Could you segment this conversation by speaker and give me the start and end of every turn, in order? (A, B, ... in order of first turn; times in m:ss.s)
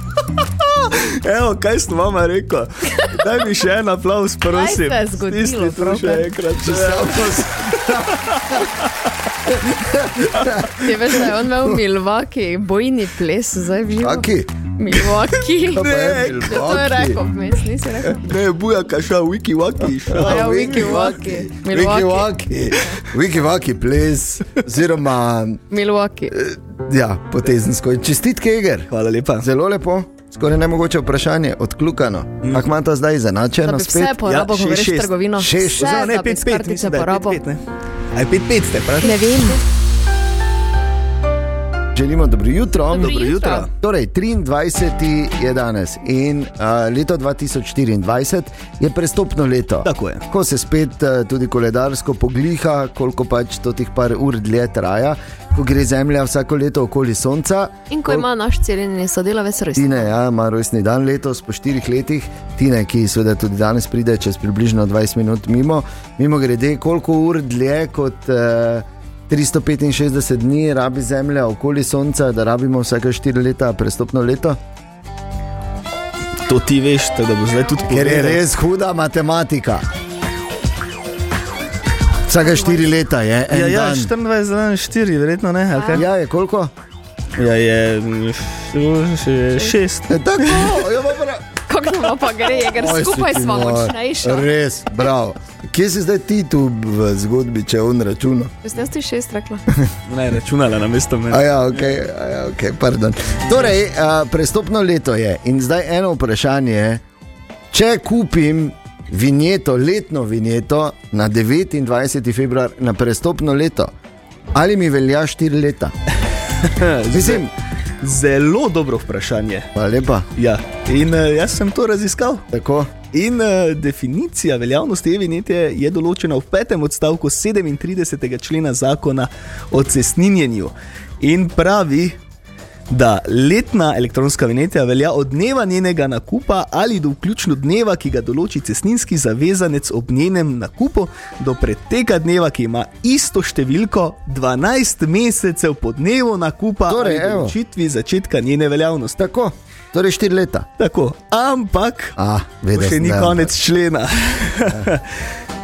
0:00.4-0:08.6 A
0:04.5-0:06.3 B
0:06.6-0:08.7 C
0:09.5-0:10.7 C
0:10.7-0:18.3 B
0:14.0-0:14.5 C
0:15.7-0:17.2 C
0:15.8-0:16.6 A
0:18.2-0:21.1 A
0:20.2-0:25.6 C
0:20.2-0:22.3 B
0:25.7-0:26.4 B
0:26.3-0:34.2 C
0:28.9-0:29.5 A
0:33.6-0:37.4 B
0:34.2-0:35.1 A
0:35.4-0:35.9 C
0:35.8-0:37.6 A
0:38.1-0:39.2 A
0:39.0-0:39.6 B
0:42.0-0:58.2 C
0:42.9-0:43.7 A
0:49.8-0:50.2 A
0:57.9-1:00.1 B
0:59.8-1:14.6 C
1:16.5-1:18.4 A
1:17.9-1:19.8 C
1:22.3-1:24.1 C
1:22.5-1:22.8 B
1:23.5-1:26.1 A
1:25.8-1:26.0 B
1:25.9-1:26.7 C
1:27.4-1:30.7 A
1:30.1-1:31.4 C
1:31.7-1:34.5 B
1:32.7-1:38.5 C
1:38.6-1:39.6 B
1:40.1-1:41.8 A
1:41.3-1:47.0 C
1:47.7-1:53.9 C
1:54.5-1:56.0 C
1:56.6-1:57.5 A
1:57.1-1:57.5 C
1:58.0-1:59.7 A
1:59.8-2:00.3 C
2:00.4-2:02.5 A
2:02.5-2:02.9 C
2:03.1-2:12.2 A
2:12.9-2:29.2 A
2:26.9-2:27.6 C
2:29.2-2:30.7 C
2:30.8-2:32.2 A
2:32.2-2:33.5 C
2:32.7-2:35.1 A